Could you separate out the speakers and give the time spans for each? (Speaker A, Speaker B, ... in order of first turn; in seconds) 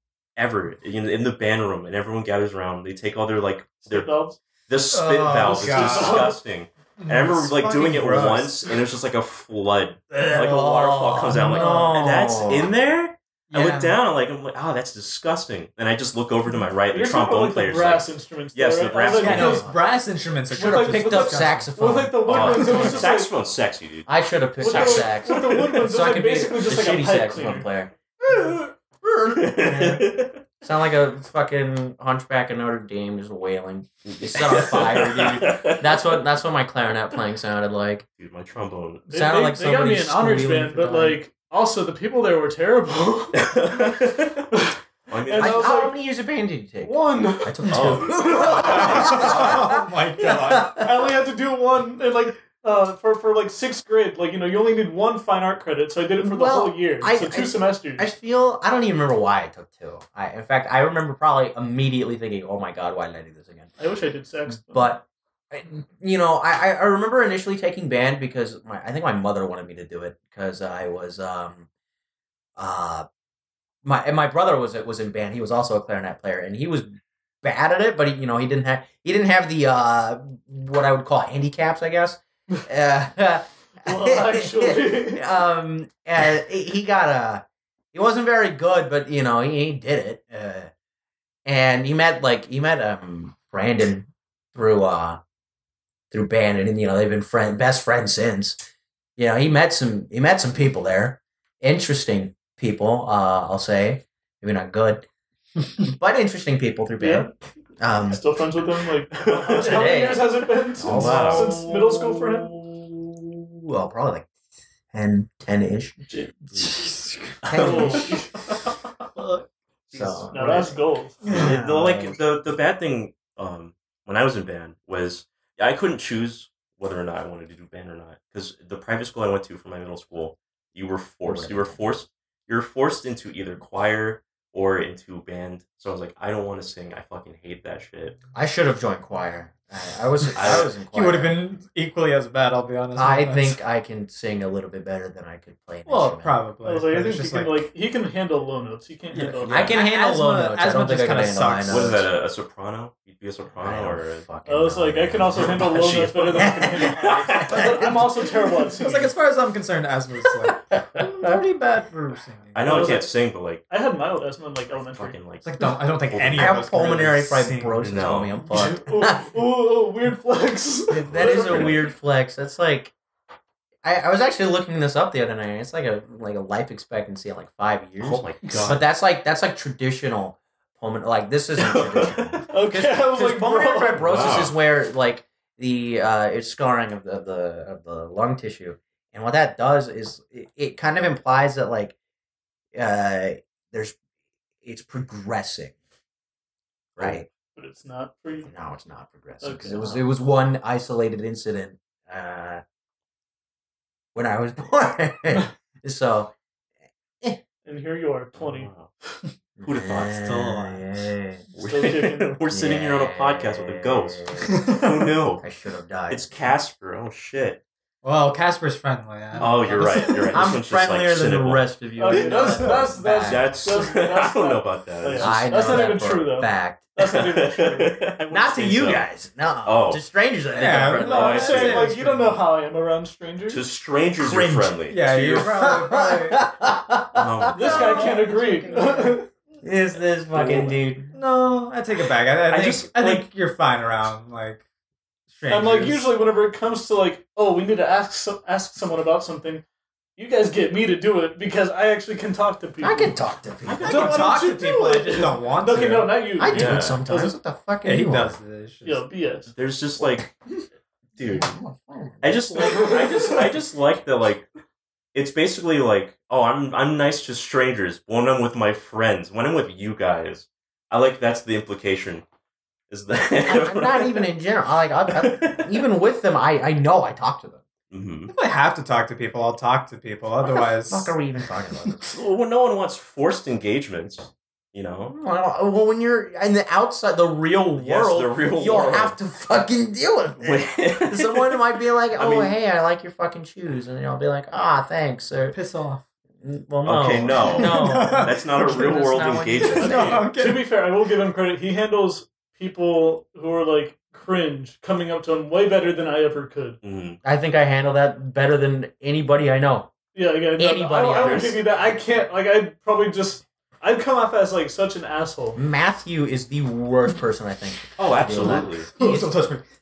Speaker A: 0.4-4.1, 4.7-19.7, 22.3-24.1, 24.7-25.7, 29.3-30.4, 34.3-36.0, 38.2-39.0, 43.3-44.5, 45.1-45.8, 47.7-49.5, 109.2-110.0, 110.9-111.5, 117.4-118.0, 119.9-120.3, 121.3-138.2, 140.4-140.7, 149.5-149.8, 151.7-154.3, 155.3-157.9, 162.5-163.6, 164.7-166.6, 167.8-168.3, 171.1-171.8, 178.0-178.8, 181.6-182.4, 184.0-184.5, 208.3-208.9, 209.7-210.2, 211.6-215.4, 216.1-217.6, 219.4-221.6, 222.2-222.6, 223.2-225.9, 227.1-229.1, 229.6-230.0, 231.0-231.9, 233.5-235.8, 237.1-238.0, 240.3-240.8, 242.5-243.3, 253.7-254.2, 256.5-257.0, 259.5-260.3, 261.2-261.5, 262.2-264.5, 265.1-272.2, 272.9-274.3, 275.1-275.8, 277.9-278.3, 282.1-285.1, 287.8-289.2, 290.4-292.5, 296.8-300.2, 306.8-307.2, 311.2-311.6, 318.0-318.9
Speaker B: 3.9-4.4, 5.4-6.4, 16.9-19.7, 20.5-23.3, 24.6-27.7, 39.1-46.0, 46.8-49.3, 50.7-58.1, 63.8-65.0, 83.8-85.3, 107.0-107.3, 108.0-112.5, 116.0-116.5, 117.5-118.4, 120.3-121.2, 146.6-149.7, 154.5-159.2, 162.7-163.1, 163.7-165.2, 168.5-171.9, 182.5-184.0, 197.6-198.5, 199.4-200.0, 207.7-208.7, 211.6-212.4, 222.0-228.3, 231.1-233.6, 237.5-239.3, 245.5-249.6, 250.2-253.2, 253.8-257.4, 258.9-259.5, 262.6-263.6, 299.8-306.8, 310.1-315.6
Speaker C: 4.9-6.3, 7.0-8.8, 11.3-12.0, 13.5-14.0, 19.1-22.1, 48.4-50.8, 116.6-117.4, 119.2-119.5, 121.2-121.5, 140.4-143.6, 145.9-147.7, 149.1-152.0, 157.5-158.0, 158.7-163.0, 165.4-167.9, 210.2-211.1, 214.6-214.9, 218.0-220.4, 230.6-232.4, 234.9-236.5, 237.7-238.2, 241.1-244.6, 245.3-246.1, 253.8-256.2, 257.8-259.1, 278.3-281.2, 295.5-296.0, 297.5-298.3, 299.6-300.7, 318.4-319.6
Speaker D: 10.1-12.7, 19.4-19.7, 20.5-23.1, 24.1-38.1, 39.1-41.2, 45.4-50.9, 56.2-63.7, 64.7-71.7, 72.6-73.1, 73.8-76.9, 77.4-90.7, 91.5-95.2, 96.1-98.6, 99.2-105.0, 105.8-108.2, 109.5-114.3, 114.9-116.0, 117.4-118.2, 119.9-122.2, 131.2-131.8, 138.3-141.3, 143.0-146.4, 149.4-152.1, 153.6-158.3, 161.0-161.3, 166.4-169.2, 170.9-172.9, 173.8-191.9, 192.8-194.0, 194.6-195.7, 197.0-197.3, 198.5-202.6, 204.1-206.3, 209.6-211.4, 212.5-214.7, 215.4-216.3, 219.8-223.6, 225.2-226.9, 228.3-231.7, 234.2-234.8, 235.4-241.1, 252.8-254.1, 256.4-258.4, 260.0-260.3, 261.2-262.8, 273.5-277.6, 280.9-282.2, 285.1-295.6, 296.4-300.2, 307.2-309.9, 310.6-311.6, 315.6-319.3